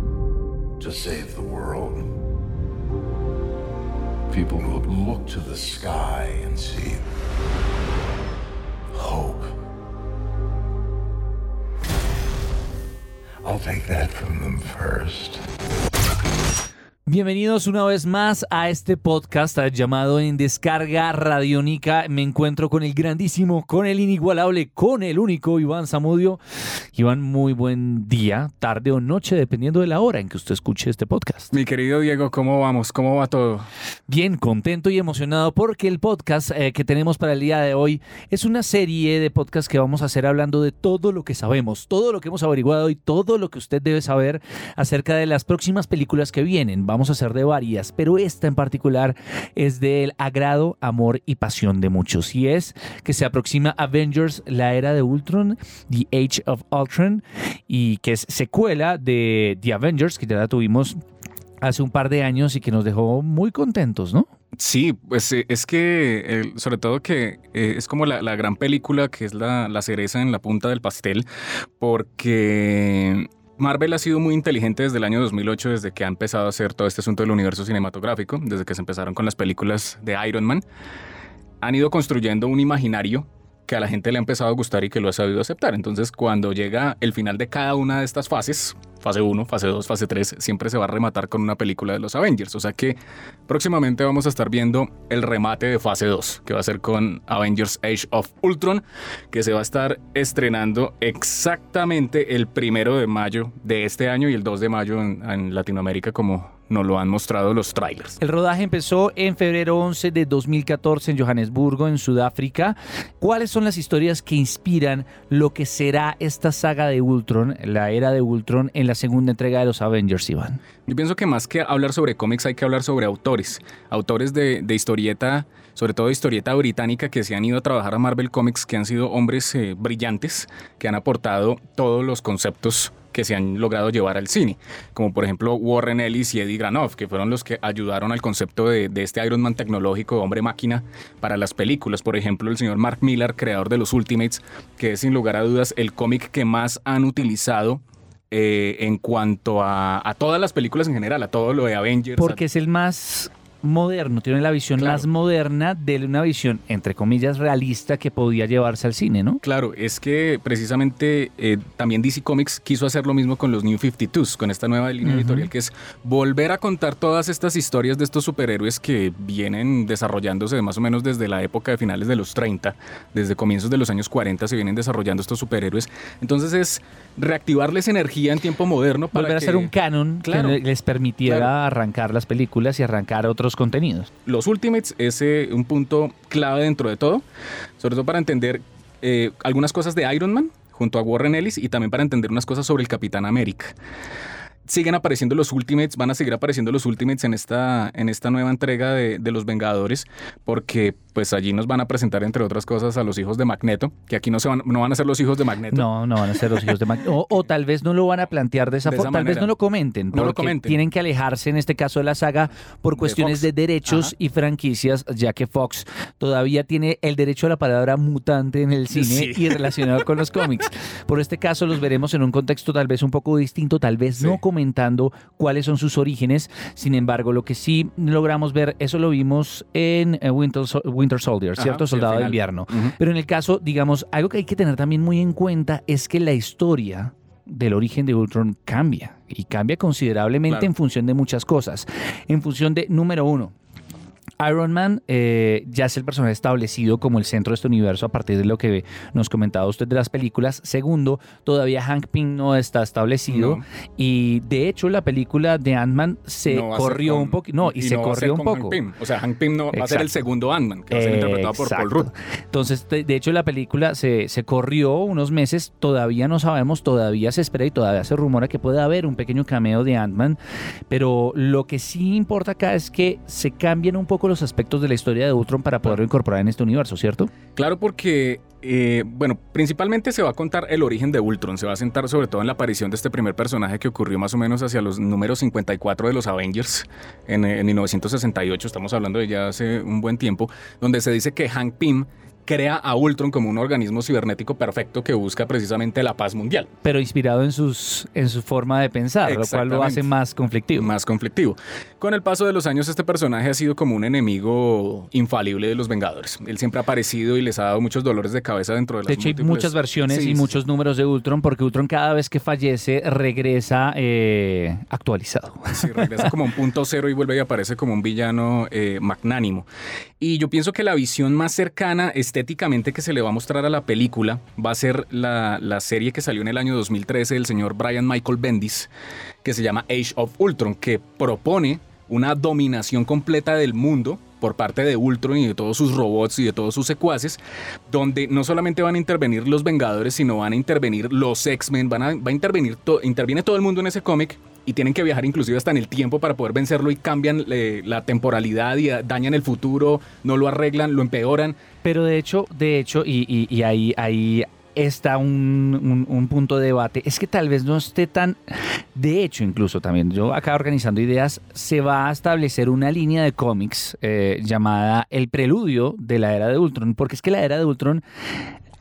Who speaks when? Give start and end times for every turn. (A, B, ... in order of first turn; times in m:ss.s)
0:00.8-0:02.1 A
0:04.3-0:07.0 A
0:08.9-0:09.5 A
0:13.4-0:15.4 A
0:17.1-0:26.4 B
0:26.9-0:31.5 B
0:31.5-0:33.7 C
0:34.1-1:01.0 B
1:01.6-1:04.3 B
1:04.6-1:11.3 C
1:11.8-1:20.6 C
1:21.6-1:48.2 C
1:48.2-2:00.6 B
2:00.9-2:32.4 C
2:32.2-2:39.4 B
2:34.8-2:35.1 C
2:39.4-2:59.7 C
2:45.0-2:45.5 B
2:59.1-3:04.1 B
3:00.2-3:00.6 C
3:01.2-3:01.5 C
3:04.3-3:07.2 C
3:07.8-3:13.8 C
3:14.7-3:25.9 C
3:25.7-4:03.5 B
3:26.4-3:26.8 C
3:28.8-3:29.5 C
3:30.1-3:30.8 C
3:33.0-3:34.1 C
3:38.9-3:40.0 C
3:51.6-3:53.0 C
4:04.4-4:18.8 B
4:13.3-4:13.6 C
4:16.5-4:22.1 C
4:19.7-4:20.1 B
4:20.9-4:30.4 B
4:30.9-4:37.3 B
4:37.6-4:56.7 C
4:56.8-5:00.9 B
4:59.2-5:00.1 C
5:00.8-5:10.5 C
5:09.1-5:16.3 B
5:15.7-5:19.7 C
5:20.2-5:28.9 C
5:29.4-5:51.6 C
5:51.8-5:58.4 B
5:59.0-6:08.0 B